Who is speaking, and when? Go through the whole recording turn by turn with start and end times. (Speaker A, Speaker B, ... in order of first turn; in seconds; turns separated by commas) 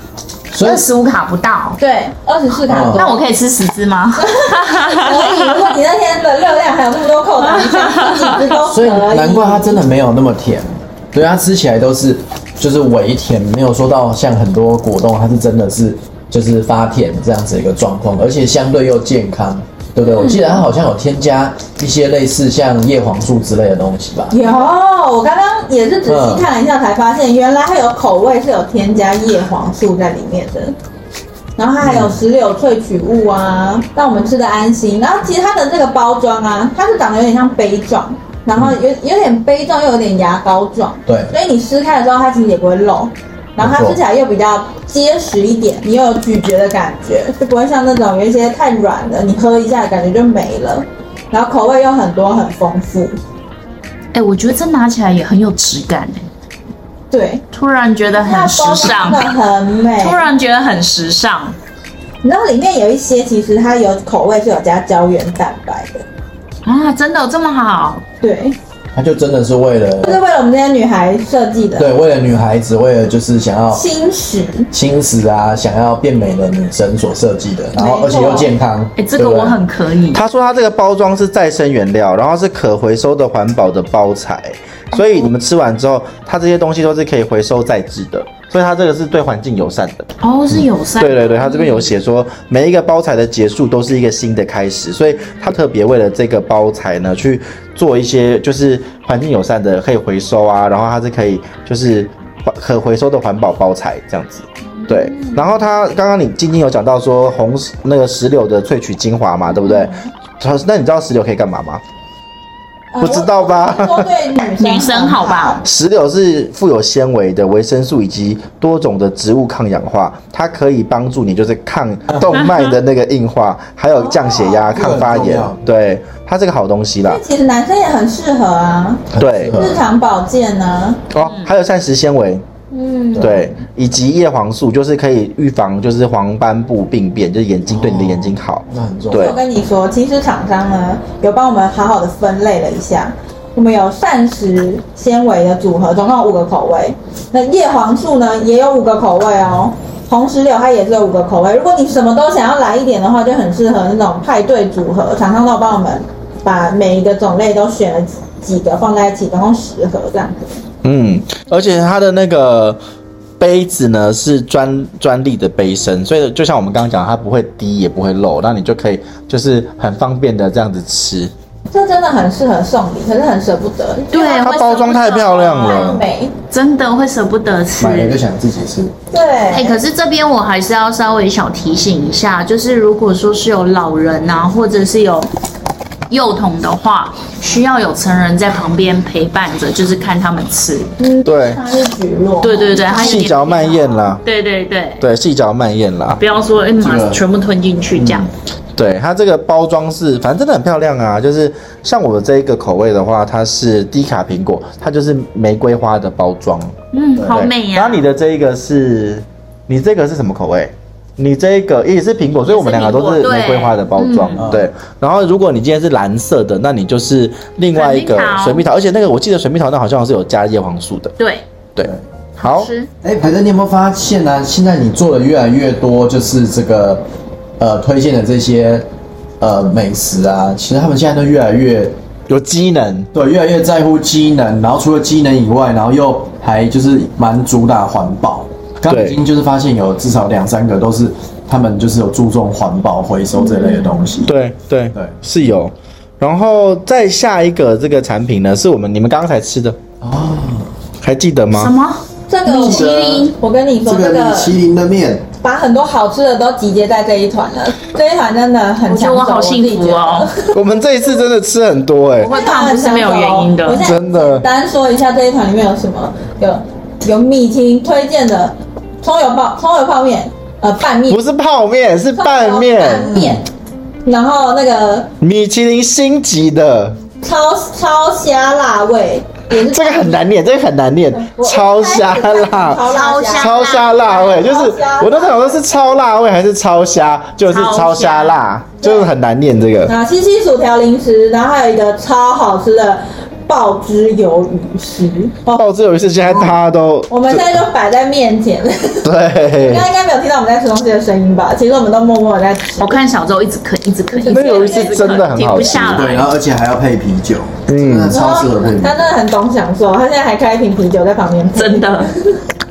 Speaker A: 0.5-0.9, Speaker B: 0.6-1.8, Speaker C: 1.8-3.2, Speaker A: 2.7-3.1, Speaker B: 2.9-5.8, Speaker C: 4.2-9.8, Speaker B: 7.4-8.5, Speaker A: 8.7-24.4, Speaker C: 20.2-20.6, Speaker C: 24.3-30.8, Speaker A: 26.1-26.5, Speaker C: 31.6-53.2, Speaker A: 31.8-32.2, Speaker A: 41.1-41.3, Speaker A: 43.6-44.0, Speaker B: 54.1-56.2, Speaker C: 57.1-57.4, Speaker B: 57.5-59.3, Speaker C: 58.1-60.2, Speaker B: 60.0-61.6, Speaker C: 62.2-66.0, Speaker B: 66.6-68.0, Speaker C: 68.2-68.6, Speaker A: 69.0-70.2, Speaker C: 70.0-71.9, Speaker A: 71.8-73.8, Speaker C: 73.7-74.7, Speaker A: 74.7-79.6, Speaker C: 77.8-78.5, Speaker B: 79.0-80.2, Speaker D: 80.1-90.1, Speaker B: 90.2-91.9, Speaker D: 91.0-111.8, Speaker C: 104.8-105.4, Speaker C: 109.5-110.1, Speaker C: 112.9-115.6, Speaker D: 113.0-114.1, Speaker B: 114.5-115.6, Speaker D: 115.6-127.2, Speaker C: 124.0-124.7, Speaker A: 124.7-125.6, Speaker C: 127.1-131.0, Speaker A: 129.1-129.8, Speaker D: 129.2-129.6, Speaker D: 131.1-132.4, Speaker B: 131.2-131.5, Speaker C: 132.7-133.4, Speaker D: 133.2-139.4, Speaker A: 137.7-139.4, Speaker C: 139.1-160.6, Speaker D: 160.8-162.8, Speaker D: 163.4-171.3, Speaker C: 171.7-174.7, Speaker B: 174.1-178.2, Speaker D: 174.4-176.0, Speaker C: 175.5-176.3, Speaker A: 177.8-178.9, Speaker C: 179.1-179.8, Speaker B: 179.5-185.3, Speaker B: 186.1-190.9, Speaker C: 191.0-193.3, Speaker D: 191.2-191.6, Speaker B: 192.4-195.0, Speaker D: 193.0-194.2, Speaker D: 195.0-196.2, Speaker B: 196.2-198.3, Speaker A: 196.8-197.2, Speaker A: 197.9-198.3, Speaker D: 198.8-221.2, Speaker B: 206.9-208.0, Speaker B: 212.5-214.5, Speaker A: 214.4-214.7, Speaker B: 217.7-218.7, Speaker B: 221.2-221.4, Speaker D: 221.8-222.7, Speaker B: 222.4-222.9, Speaker A: 223.0-227.0, Speaker A: 227.6-228.9, Speaker A: 229.4-231.9, Speaker D: 232.3-233.1, Speaker A: 233.1-244.3, Speaker D: 238.9-239.2, Speaker C: 243.4-244.0, Speaker D: 244.3-249.8, Speaker A: 250.0-250.7, Speaker D: 251.0-251.7, Speaker B: 251.5-253.3, Speaker C: 252.3-254.5, Speaker A: 252.5-253.3, Speaker A: 253.8-255.3, Speaker C: 255.4-260.6, Speaker B: 258.9-260.3, Speaker D: 260.5-262.3, Speaker B: 262.2-263.9, Speaker C: 262.3-271.2, Speaker D: 263.8-264.4, Speaker D: 271.1-273.4, Speaker C: 272.1-273.5, Speaker C: 274.0-275.1, Speaker D: 275.2-277.0, Speaker C: 277.2-280.2, Speaker D: 279.6-289.9, Speaker C: 281.2-285.6, Speaker B: 282.8-284.3, Speaker B: 287.5-288.4, Speaker C: 288.8-289.1, Speaker C: 289.9-295.6, Speaker D: 295.5-297.6, Speaker C: 297.1-303.0, Speaker D: 299.0-299.9, Speaker B: 302.8-306.3, Speaker C: 304.1-305.4, Speaker D: 304.3-306.0, Speaker A: 305.6-309.1, Speaker D: 307.7-308.2, Speaker C: 308.1-312.4, Speaker B: 311.6-312.1